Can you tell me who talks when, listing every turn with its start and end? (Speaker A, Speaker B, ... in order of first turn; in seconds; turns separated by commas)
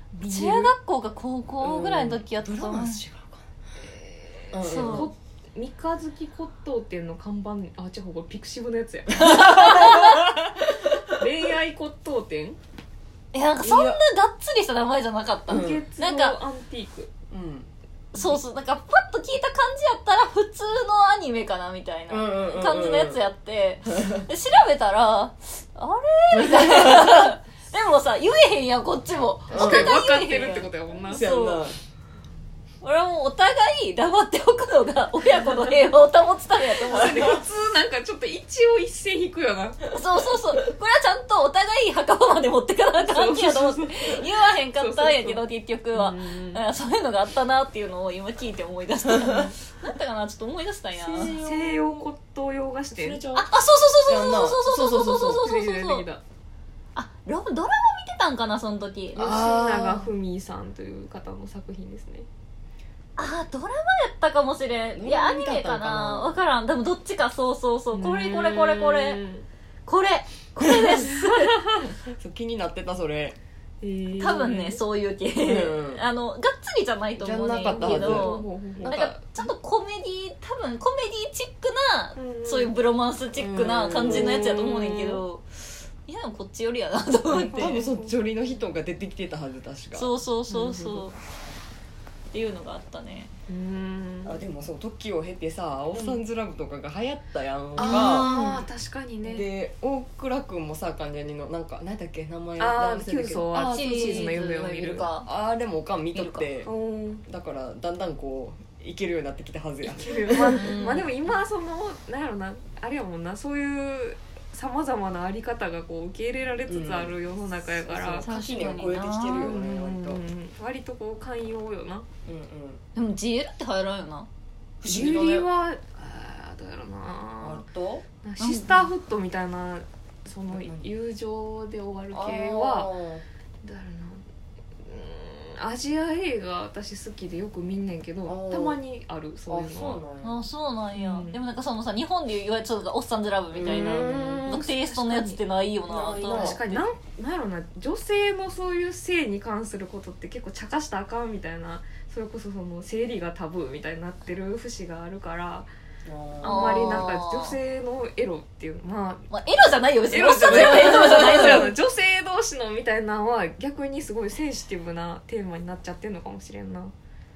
Speaker A: 0.1-0.7, Speaker B: 0.2-3.0, Speaker C: 1.6-3.4, Speaker A: 3.9-10.1, Speaker C: 4.5-5.1, Speaker B: 4.6-5.1, Speaker C: 9.2-10.5, Speaker B: 9.3-10.2, Speaker A: 11.1-12.6, Speaker B: 13.3-16.4, Speaker C: 13.6-14.0, Speaker A: 15.5-17.1, Speaker C: 15.5-15.8, Speaker C: 17.3-17.7, Speaker B: 18.1-31.6, Speaker C: 22.1-23.2, Speaker C: 26.3-27.3, Speaker A: 29.5-31.2, Speaker C: 29.5-29.9, Speaker C: 31.1-31.8, Speaker B: 32.8-37.4, Speaker A: 36.6-39.9, Speaker B: 39.9-51.3, Speaker A: 43.0-46.6, Speaker C: 50.9-52.1, Speaker A: 51.2-53.2, Speaker C: 52.9-55.4, Speaker B: 53.3-56.0, Speaker A: 55.4-56.2, Speaker B: 57.0-59.3, Speaker A: 59.1-62.3, Speaker C: 59.1-60.1, Speaker B: 63.2-69.2, Speaker C: 65.0-66.4, Speaker A: 67.9-69.5, Speaker B: 69.8-71.7, Speaker A: 71.2-71.8, Speaker C: 72.0-73.4, Speaker A: 73.8-74.8, Speaker B: 74.2-87.8, Speaker C: 75.4-76.0, Speaker C: 77.2-79.5, Speaker A: 77.7-79.0, Speaker A: 82.1-82.7, Speaker C: 83.4-85.1, Speaker A: 84.0-85.2, Speaker A: 87.3-88.2, Speaker C: 87.5-90.1, Speaker B: 89.9-91.2, Speaker A: 90.5-91.1, Speaker B: 92.3-93.3, Speaker A: 93.5-94.4, Speaker C: 94.2-98.6, Speaker A: 95.9-96.2, Speaker B: 97.8-98.6, Speaker A: 97.8-99.5, Speaker C: 99.2-104.4, Speaker A: 102.6-105.1, Speaker B: 103.5-105.3, Speaker C: 105.2-106.7, Speaker B: 106.1-106.4, Speaker A: 106.6-107.2, Speaker C: 107.2-110.8, Speaker A: 109.8-118.3, Speaker B: 110.5-111.1, Speaker C: 116.7-117.2, Speaker C: 117.7-120.2, Speaker B: 118.2-119.6, Speaker A: 119.4-122.0, Speaker C: 122.2-122.8, Speaker B: 122.9-124.3, Speaker C: 124.8-125.5, Speaker A: 124.8-127.6, Speaker C: 127.4-128.1, Speaker A: 128.2-132.9, Speaker B: 128.4-128.9, Speaker C: 130.5-130.9, Speaker C: 132.1-133.2, Speaker A: 133.6-134.2, Speaker A: 134.8-140.0, Speaker C: 138.2-138.8, Speaker C: 139.5-140.3, Speaker B: 140.2-146.8, Speaker A: 140.9-141.4, Speaker C: 143.5-144.6, Speaker A: 143.7-145.4, Speaker C: 145.9-146.6, Speaker A: 146.1-155.7, Speaker C: 156.0-157.0, Speaker A: 156.4-159.3, Speaker B: 156.4-157.6, Speaker B: 159.3-161.7, Speaker A: 160.1-166.9